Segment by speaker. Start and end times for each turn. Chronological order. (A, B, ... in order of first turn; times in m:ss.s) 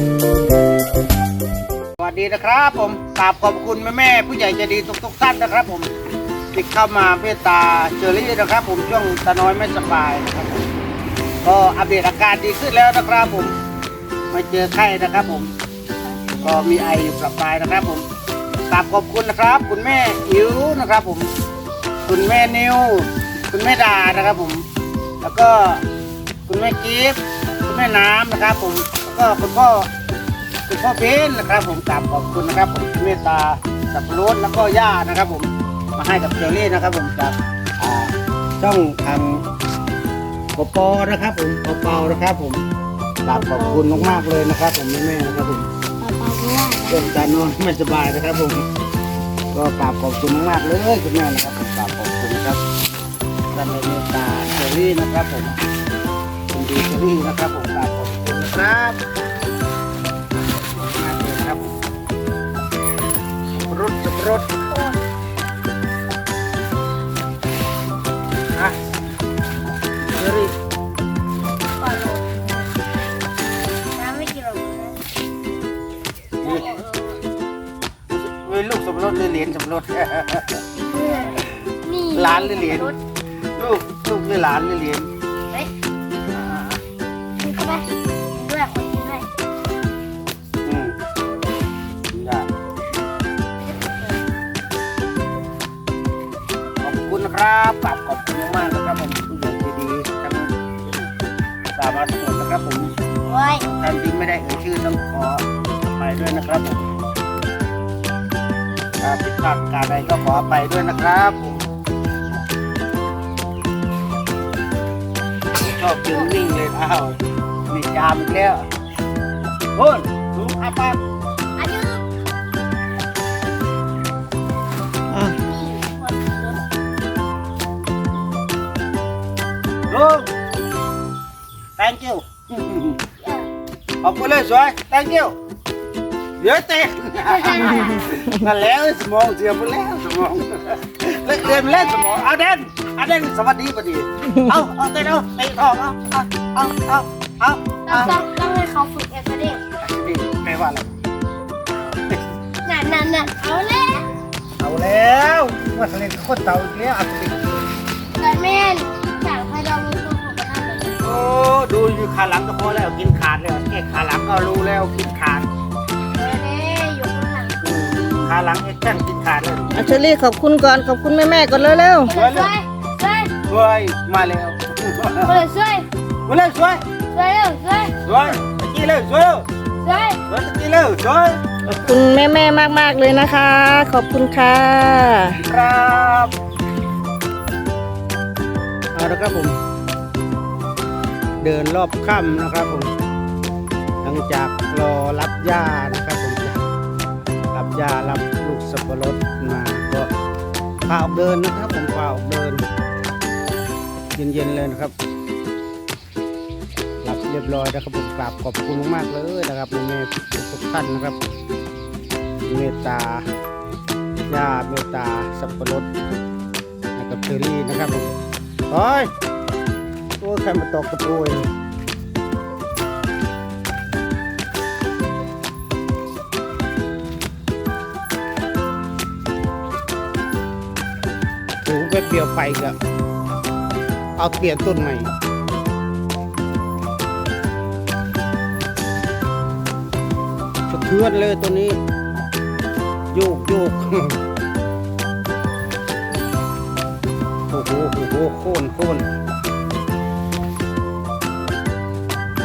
0:02.0-0:05.9 A
0:06.5-0:10.7 A
0:11.4-0:13.6 A
0:14.3-0:15.5 A
0:16.4-0:18.1 A
0:18.7-0:21.3 A
0:22.0-0:24.6 A
0:25.2-0:25.8 A
0:26.5-0:29.9 A
0:30.7-0:39.4 A
0:40.6-0:42.6 A
0:43.2-0:45.7 A
0:43.4-0:44.1 B
0:46.0-0:47.1 B
0:46.9-0:48.6 A
0:49.5-0:52.6 A
0:53.5-0:55.6 A
0:56.5-0:59.0 A
1:00.5-1:01.8 A
1:03.6-1:04.5 A
1:10.0-1:10.5 A
1:11.8-1:12.6 C
1:14.0-1:15.0 C
1:16.4-1:16.7 A
1:16.4-1:17.2 C
1:18.1-1:20.6 A
1:20.8-1:23.0 C
1:22.2-1:22.9 A
1:23.6-1:25.1 A
1:26.3-1:26.8 A
1:27.4-1:29.3 C
1:30.6-1:31.0 A
1:32.1-1:32.5 A
1:33.6-1:34.2 C
1:36.8-1:40.5 A
1:41.7-1:43.0 A
1:43.3-1:43.6 C
1:43.6-1:47.0 A
1:49.0-1:51.6 A
1:55.6-1:57.2 A
1:57.7-1:58.7 A
1:59.8-2:01.0 A
2:01.6-2:02.0 C
2:05.3-2:06.6 C
2:09.9-2:10.3 A
2:11.8-2:13.0 A
2:13.2-2:13.5 C
2:14.0-2:15.4 A
2:16.4-2:28.1 A
2:17.2-2:18.1 C
2:21.4-2:22.2 C
2:27.9-2:29.6 C
2:29.8-2:30.9 A
2:32.6-2:34.1 C
2:34.6-2:37.7 A
2:38.2-2:41.2 C
2:41.0-2:45.5 A
2:46.1-2:48.3 C
2:47.6-2:49.7 A
2:49.7-2:52.1 B
2:52.0-2:53.3 C
2:52.1-2:52.5 A
2:53.5-2:55.4 A
2:55.2-2:55.9 C
2:56.3-2:56.8 A
2:57.1-2:57.9 C
2:58.0-2:59.5 A
2:59.8-3:00.2 C
3:00.3-3:01.7 A
3:01.7-3:05.4 B
3:05.4-3:06.3 A
3:08.9-3:09.6 A
3:11.4-3:12.9 A
3:14.0-3:16.6 A
3:17.5-3:20.1 A
3:20.9-3:22.6 A
3:24.1-3:24.9 A
3:27.0-3:31.2 A
3:32.5-3:33.3 A
3:34.3-3:35.9 A
3:37.0-3:38.2 A
3:38.7-3:39.1 A
3:40.2-3:41.5 A
3:51.6-3:52.8 A
3:54.2-3:55.1 A
4:00.7-4:01.8 A
4:03.1-4:04.2 A
4:07.5-4:09.1 A